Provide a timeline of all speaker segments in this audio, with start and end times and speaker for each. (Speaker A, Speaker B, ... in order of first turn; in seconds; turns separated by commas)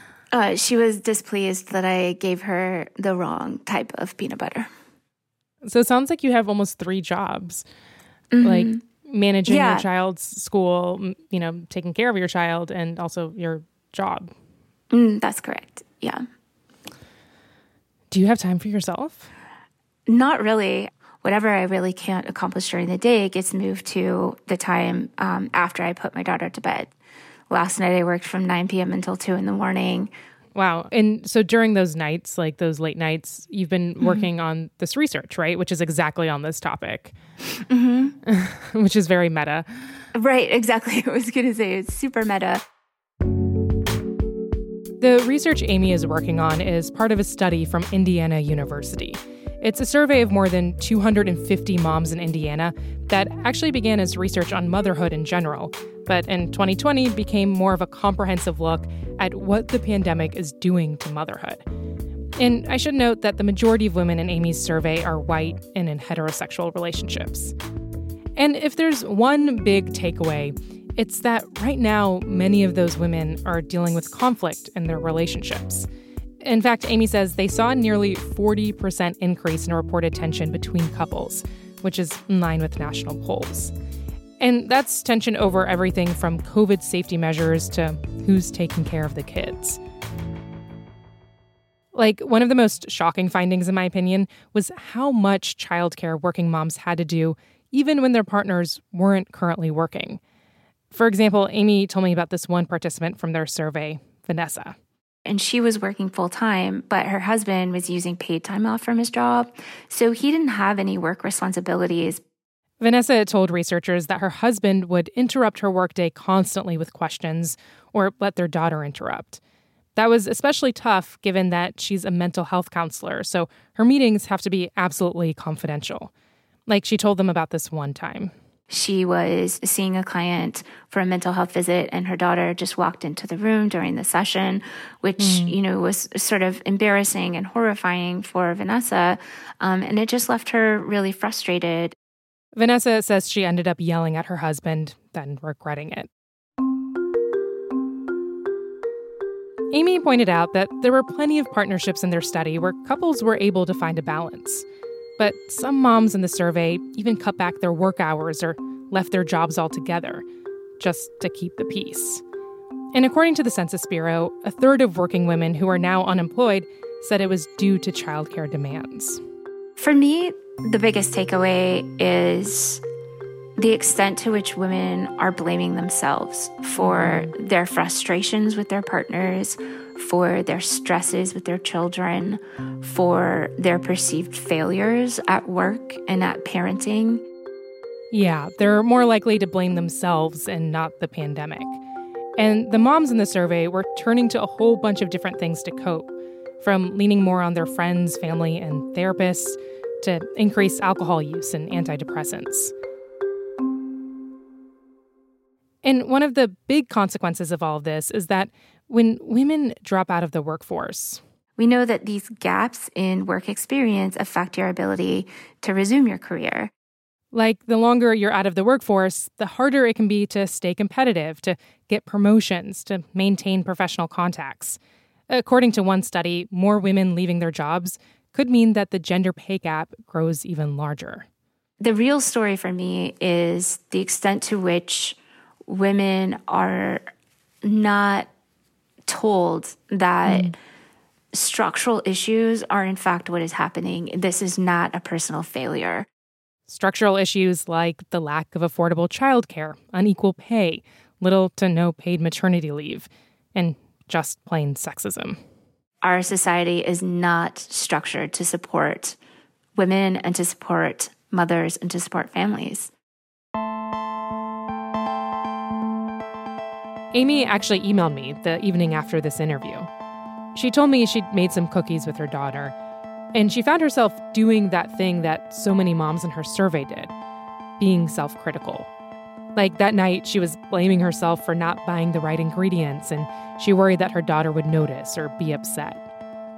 Speaker A: 0.3-4.7, Speaker B: 5.6-7.7, Speaker A: 8.3-8.8, Speaker B: 8.4-14.3, Speaker A: 9.5-9.8, Speaker A: 14.9-16.2, Speaker B: 18.1-19.3, Speaker A: 20.1-26.9, Speaker A: 27.5-30.1, Speaker B: 30.6-37.1, Speaker A: 34.0-34.3, Speaker A: 37.7-38.1, Speaker B: 38.2-39.7, Speaker A: 40.1-42.6, Speaker B: 45.0-61.6, Speaker B: 62.4-67.5, Speaker B: 68.4-75.9, Speaker B: 76.4-83.7, Speaker B: 84.4-89.8, Speaker B: 91.9-100.2, Speaker B: 100.9-104.8, Speaker A: 105.3-112.2, Speaker B: 112.8-119.4, Speaker B: 120.0-126.1, Speaker B: 126.7-128.3, Speaker A: 128.7-141.9, Speaker B: 135.2-135.6, Speaker B: 142.6-146.1, Speaker B: 149.7-154.7, Speaker B: 155.2-160.2, Speaker B: 160.8-162.2, Speaker B: 162.9-169.2, Speaker A: 169.8-172.8, Speaker A: 173.6-187.2, Speaker B: 176.8-177.3, Speaker B: 188.1-191.8, Speaker B: 192.4-202.7, Speaker B: 205.8-211.2, Speaker A: 211.6-216.7, Speaker B: 217.3-224.8, Speaker B: 225.3-231.3, Speaker A: 231.8-237.1, Speaker A: 237.6-238.3, Speaker A: 239.1-240.6, Speaker B: 240.2-240.6, Speaker A: 241.3-246.1, Speaker B: 246.7-255.4, Speaker A: 256.0-259.2, Speaker A: 259.8-262.9, Speaker B: 267.1-269.9, Speaker B: 270.6-272.8, Speaker B: 273.3-277.1, Speaker B: 277.8-278.9, Speaker B: 279.6-286.1